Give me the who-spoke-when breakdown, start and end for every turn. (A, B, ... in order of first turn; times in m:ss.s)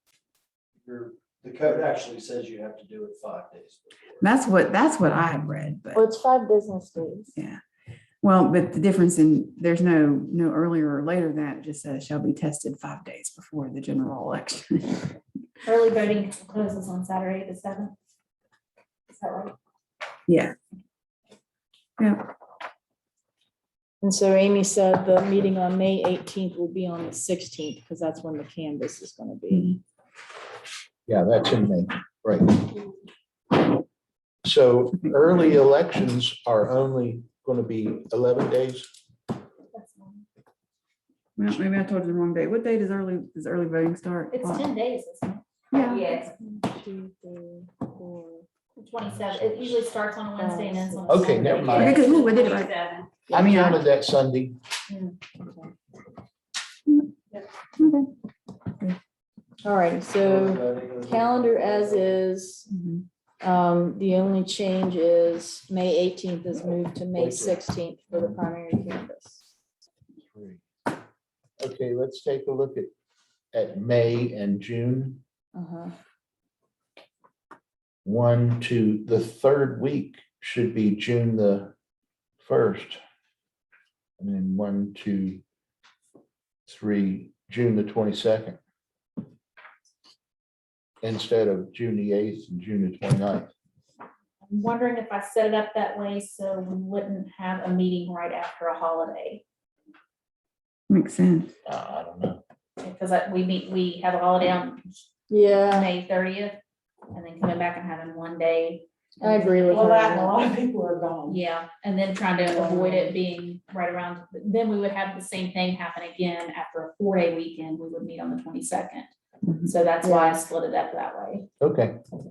0:00.8-0:04.2 A
0:04.2-0:06.0 B
0:05.9-0:07.3 C
0:07.4-0:07.6 B
0:08.2-0:15.2 B
0:15.6-0:17.9 D
0:19.1-0:19.5 D
0:20.3-0:20.5 B
0:22.0-0:22.3 B
0:24.0-0:29.8 C
0:31.1-0:32.9 E
0:34.4-0:38.9 E
0:39.7-0:40.2 D
0:41.4-0:44.7 B
0:44.3-0:46.3 D
0:45.7-0:46.1 B
0:46.4-0:48.5 C
0:48.8-0:53.1 D
0:49.0-0:49.8 E
0:50.4-0:51.9 C
0:51.1-0:52.1 E
0:51.8-0:52.7 B
0:53.3-0:54.6 E
0:53.3-0:53.7 B
0:55.4-0:55.7 C
0:57.8-0:58.1 B
0:59.6-1:02.7 C
1:00.2-1:02.2 A
1:02.7-1:03.0 B
1:03.4-1:09.5 C
1:07.2-1:07.6 E
1:08.1-1:08.4 E
1:10.2-1:10.6 E
1:11.6-1:12.9 E
1:13.5-1:15.2 E
1:15.5-1:15.9 C
1:18.0-1:21.7 E
1:22.4-1:23.0 E
1:24.2-1:25.4 E
1:26.7-1:28.6 E
1:31.0-1:33.5 E
1:34.5-1:39.4 D
1:40.9-1:41.5 B
1:41.7-1:42.4 E
1:42.8-1:46.6 D
1:45.3-1:45.9 C
1:47.1-1:50.1 D
1:49.2-1:50.4 C
1:49.7-1:51.4 F
1:51.2-1:59.1 D
1:52.5-1:52.9 F
1:52.6-1:53.1 C
1:59.6-2:01.5 D
2:00.0-2:00.4 C
2:01.6-2:02.0 E